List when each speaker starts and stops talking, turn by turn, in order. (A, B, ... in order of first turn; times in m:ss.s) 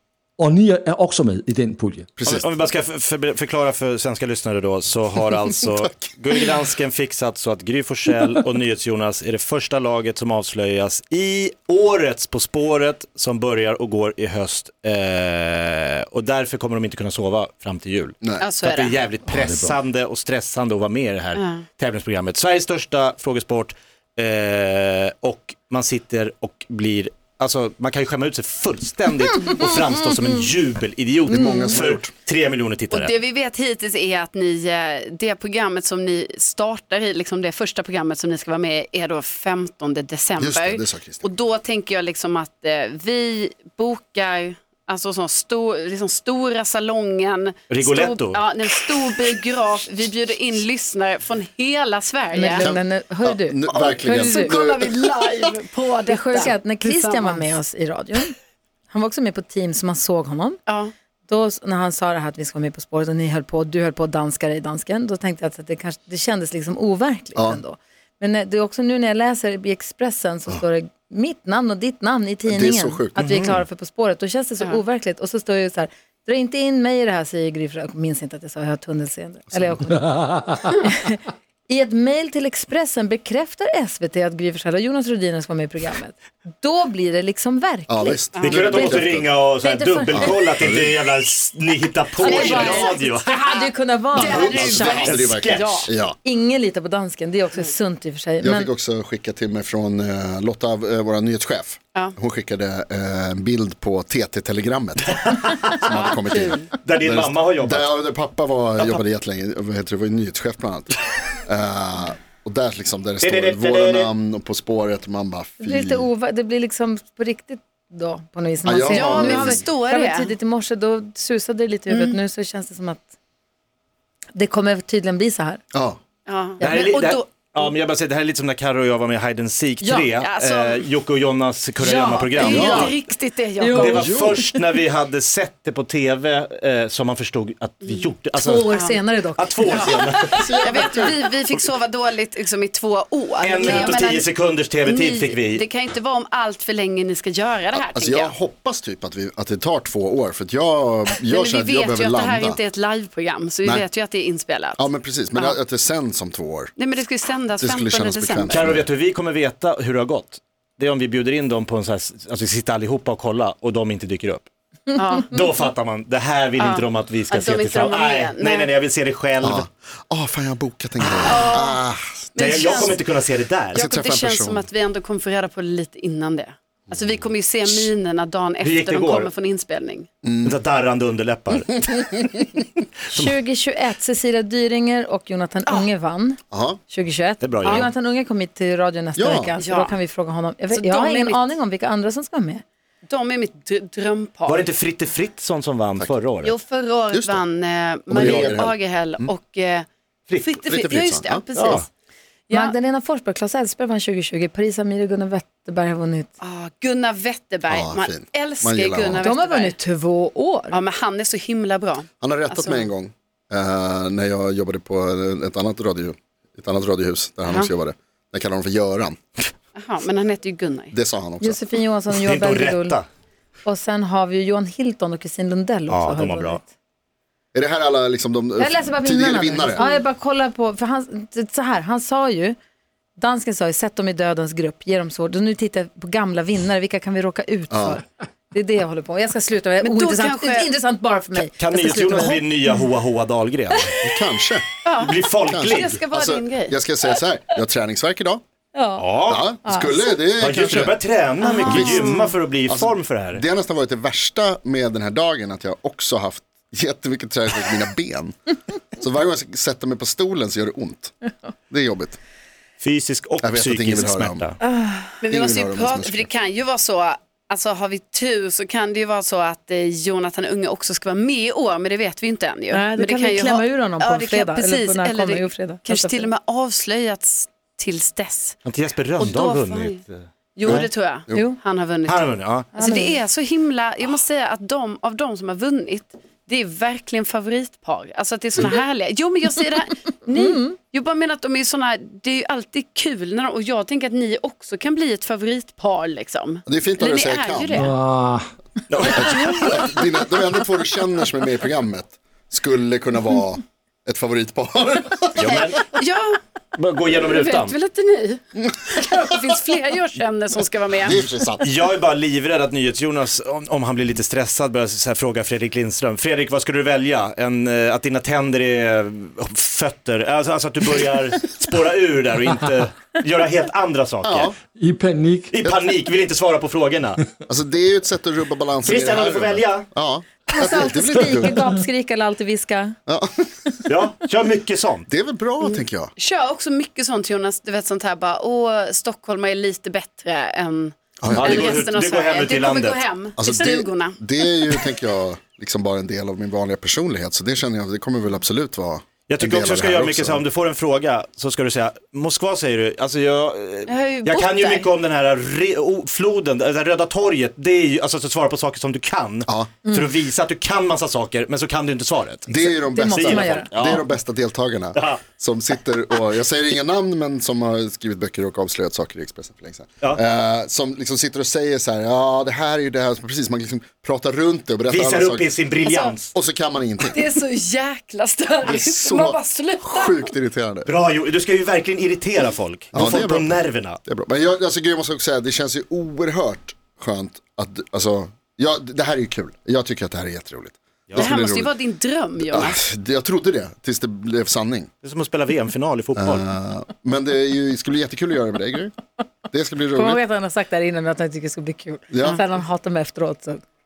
0:00.4-0:02.1 A
0:02.2-0:02.5 B
0:02.2-0:33.2 C
0:18.4-0:19.0 D
0:19.3-0:19.8 A
0:21.4-0:21.6 D
0:31.3-0:32.1 B
0:32.9-0:52.7 D
0:40.4-0:41.3 B
0:47.7-0:48.4 C
0:52.3-0:54.6 E
0:52.6-0:55.4 B
0:53.7-0:57.5 D
0:56.1-0:58.4 E
0:58.9-1:00.6 E
1:00.7-1:00.9 D
1:01.3-1:28.2 E
1:07.4-1:07.6 B
1:12.5-1:13.5 B
1:13.2-1:13.6 C
1:19.5-1:19.9 B
1:27.9-1:29.3 B
1:28.4-1:28.8 D
1:28.4-1:33.4 C
1:29.6-1:30.4 E
1:30.1-1:31.0 B
1:32.2-1:34.9 E
1:32.2-1:33.0 D
1:34.1-1:36.2 B
1:34.2-1:35.9 D
1:34.6-1:35.9 C
1:36.2-1:38.7 E
1:38.4-1:56.1 B
1:45.1-1:46.0 C
1:45.9-1:46.7 D
1:46.7-1:48.0 C
1:53.2-1:54.1 C
1:55.6-2:03.1 E
1:58.6-1:59.6 B
1:58.9-2:00.3 D
2:01.9-2:02.2 D
2:04.4-2:05.6 E
2:05.7-2:06.0 B
2:06.3-2:07.7 D
2:06.6-2:06.9 E
2:06.6-2:13.0 C
2:09.8-2:10.1 E
2:10.2-2:10.9 D
2:11.8-2:12.7 E
2:12.1-2:14.1 D
2:12.5-2:12.9 B
2:13.6-2:14.6 E
2:13.7-2:18.8 C
2:13.8-2:14.4 B
2:18.4-2:20.8 E
2:18.7-2:19.0 D
2:19.4-2:20.5 C
2:19.7-2:20.0 D
2:19.7-2:21.1 B
2:20.6-2:24.3 D
2:23.4-2:25.7 C
2:23.7-2:24.0 E
2:24.8-2:28.3 D
2:27.7-2:32.6 B
2:31.3-2:35.6 D
2:34.8-2:36.7 B
2:36.8-2:38.6 D
2:37.6-2:38.9 B
2:38.5-2:44.5 C
2:45.0-2:45.3 D
2:45.3-2:49.6 C
2:46.6-2:48.7 D
2:49.4-2:53.0 B
2:51.0-2:51.7 C
2:51.3-2:51.8 D
2:52.4-2:53.0 D
2:52.4-2:53.8 C
2:53.7-3:00.1 D
2:53.7-2:54.7 B
2:56.9-2:57.3 B
2:58.6-2:59.3 C
3:00.2-3:00.6 B
3:00.4-3:02.5 C
3:03.1-3:12.6 E
3:06.5-3:06.8 B
3:07.4-3:07.9 C
3:09.2-3:09.5 B
3:09.6-3:10.0 D
3:10.7-3:11.4 D
3:13.1-3:14.7 D
3:14.5-3:16.6 C
3:16.4-3:19.9 D
3:17.1-3:17.4 B
3:18.1-3:18.7 C
3:18.1-3:19.3 B
3:20.4-3:21.8 D
3:20.6-3:21.8 B
3:21.6-3:21.8 C
3:22.5-3:22.7 D
3:22.5-3:26.3 E
3:26.4-3:29.8 D
3:27.7-3:29.3 B
3:29.2-3:30.8 E
3:30.7-3:32.9 D
3:32.2-3:39.2 B
3:39.8-3:40.9 D
3:40.9-3:41.6 B
3:41.4-3:43.0 E
3:42.1-3:43.1 C
3:43.6-3:46.7 E
3:45.9-3:46.6 C
3:47.5-3:49.9 B
3:48.6-3:52.6 E
3:53.2-4:02.5 E
3:57.7-3:58.0 B
3:59.8-4:00.7 D
4:01.3-4:03.9 C
4:04.0-4:04.7 B
4:04.8-4:06.8 D
4:05.0-4:06.0 C
4:05.5-4:08.4 B
4:08.7-4:09.1 E
4:09.0-4:09.5 C
4:09.2-4:11.0 B
4:09.6-4:10.2 E
4:10.4-4:13.4 C
4:11.5-4:12.0 E
4:11.5-4:12.2 D
4:11.6-4:18.4 B
4:19.0-4:21.1 B
4:21.7-4:22.2 B
4:22.8-4:24.6 C
4:23.4-4:24.4 B
4:24.6-4:25.1 E
4:25.2-4:38.6 D
4:25.3-4:26.3 B
4:32.7-4:36.3 E
4:38.6-4:40.9 C
4:39.2-4:40.0 D
4:40.6-4:57.9 D
4:40.7-4:41.5 B
4:41.3-4:41.6 E
4:42.0-4:42.7 C
4:42.8-4:43.2 E
4:50.4-4:50.8 E
4:56.7-4:57.9 B
4:57.7-4:58.4 A
4:58.9-4:59.9 C
4:59.1-5:05.7 B
4:59.2-4:59.8 D
5:05.4-5:05.9 C
5:05.5-5:06.4 D
5:06.8-5:07.8 C
5:07.2-5:11.2 D
5:11.0-5:11.6 B
5:11.6-5:24.5 C
5:24.2-5:24.6 B
5:24.8-5:25.5 A
5:25.5-5:27.2 C
5:27.5-5:31.7 B
5:28.8-5:29.9 C
5:30.5-5:33.0 E
5:33.1-5:33.5 B
5:33.9-5:35.1 C
5:35.1-5:36.1 B
5:35.6-5:44.8 D
5:41.2-5:41.9 B
5:41.3-5:43.1 C
5:43.4-5:50.4 B
5:49.3-6:02.5 C
5:53.9-5:54.9 D
5:59.5-5:59.7 B
6:02.5-6:15.6 B
6:02.5-6:03.7 E
6:03.1-6:04.1 C
6:04.9-6:05.2 C
6:14.9-6:16.4 C
6:15.8-6:16.2 D
6:16.3-6:17.2 B
6:17.0-6:20.3 D
6:18.6-6:20.9 B
6:20.9-6:24.0 C
6:22.9-6:31.8 B
6:31.1-6:31.3 C
6:31.2-6:32.8 D
6:32.5-6:34.9 B
6:35.0-6:36.5 C
6:36.2-6:38.9 B
6:39.5-6:40.2 B
6:39.9-6:43.6 E
6:42.1-6:42.4 B